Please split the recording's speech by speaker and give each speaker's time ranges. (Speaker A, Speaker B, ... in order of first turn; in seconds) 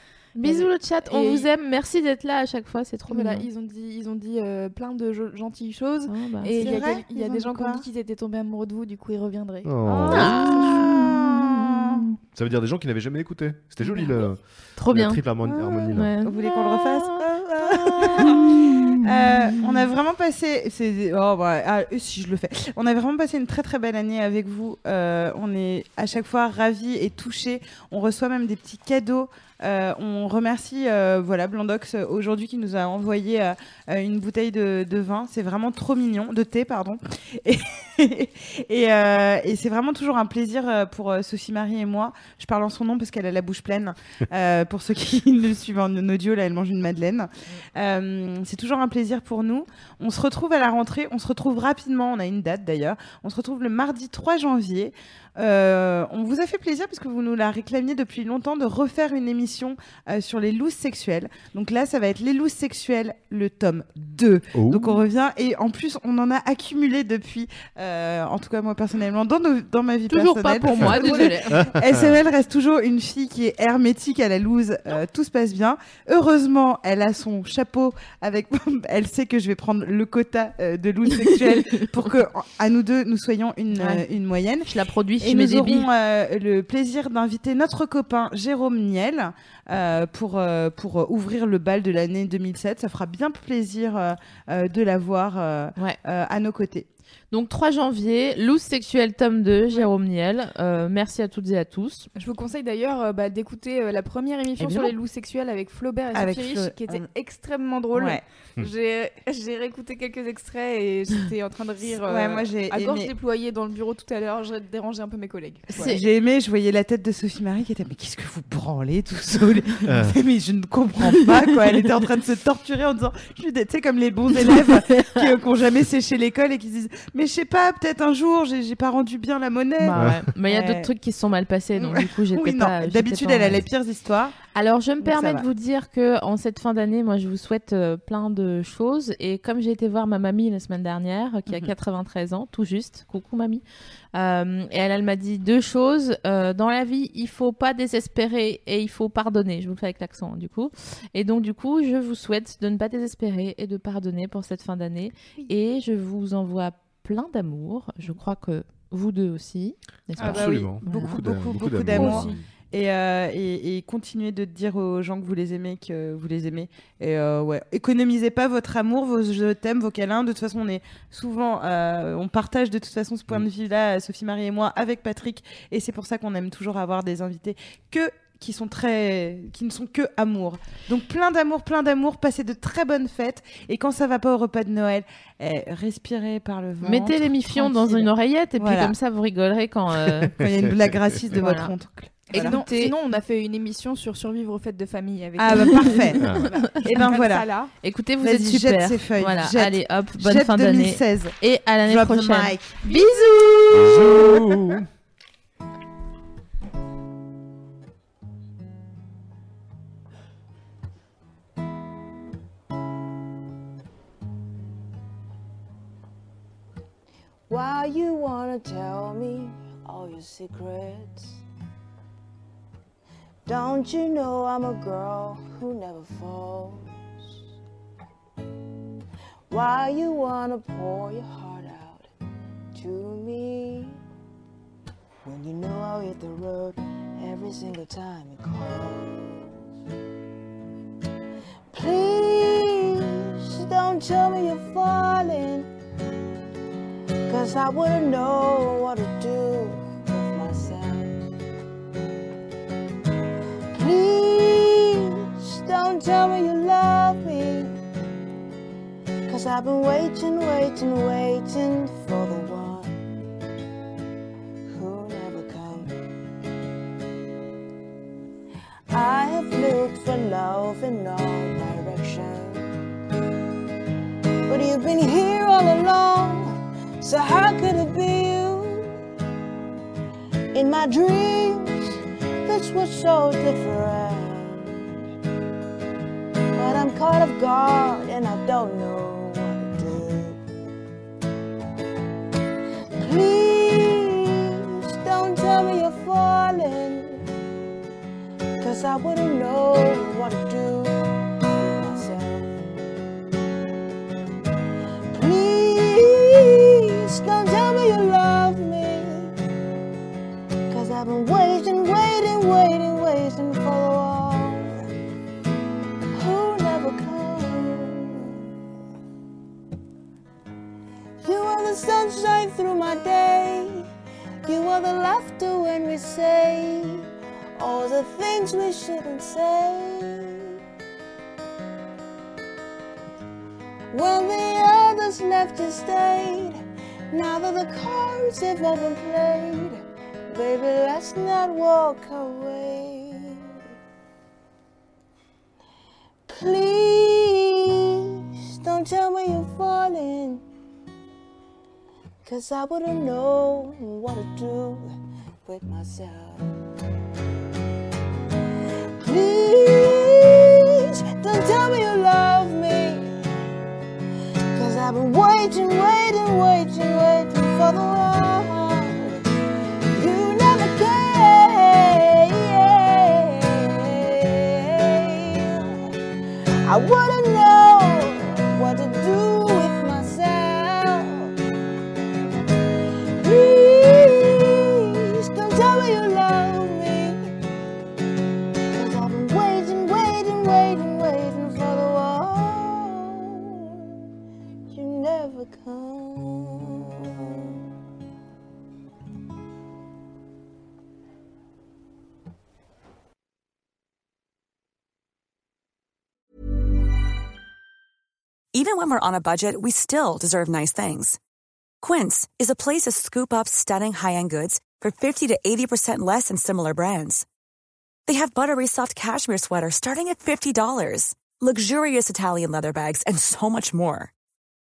Speaker A: 0.3-3.5, 6.1-6.7, 10.1-11.0, 14.8-15.2, 15.9-19.0, 70.1-71.7, 83.8-84.0, 84.7-85.9, 97.3-102.1, 124.5-125.0, 129.8-133.6, 134.5-143.6, 144.1-161.2, 161.9-162.2, 186.8-190.3, 191.3-191.7, 192.3-192.9, 197.8-202.9
Speaker B: 0.5-1.5, 3.1-9.8, 102.1-116.0, 192.3-197.7
Speaker C: 6.6-7.8, 9.8-12.1, 15.4-96.9, 104.6-104.9, 106.1-107.0, 107.9-108.2, 112.0-113.1, 115.7-130.9, 131.8-134.3, 135.0-135.4, 160.2-188.9, 190.3-192.6, 195.4-197.5, 198.2-204.2
Speaker D: 9.6-10.9, 12.3-16.1, 64.5-65.0, 71.6-72.1, 119.8-120.2, 129.9-130.3, 160.2-162.4, 190.4-191.2, 196.2-196.5, 203.7-204.9
Speaker E: 218.3-219.0, 220.3-220.9, 223.6-225.2, 225.7-226.1, 229.6-231.7, 235.4-236.1, 238.2-238.8, 244.2-245.4, 248.2-249.7, 250.3-250.6, 253.8-254.5, 255.4-257.5, 259.4-262.8, 264.8-265.8, 269.1-270.9, 271.7-272.1, 275.0-276.4, 277.2-278.6, 280.6-281.6, 282.5-283.9, 286.8-289.9, 293.2-294.0, 295.2-296.8, 298.8-300.7, 301.8-302.1, 305.3-306.2, 307.4-308.9, 310.8-314.6, 316.3-317.5, 321.4-323.6, 325.1-326.6, 327.6-329.7, 334.1-336.4, 337.3-338.6, 340.4-342.9, 349.4-350.1, 352.8-353.7, 361.4-362.0, 365.2-368.9, 370.1-371.7, 372.6-373.2, 376.9-378.2, 378.7-380.5, 383.3-384.1, 385.4-387.0, 388.9-389.6, 390.1-391.6
Speaker F: 408.5-411.2, 411.8-417.2, 418.1-424.1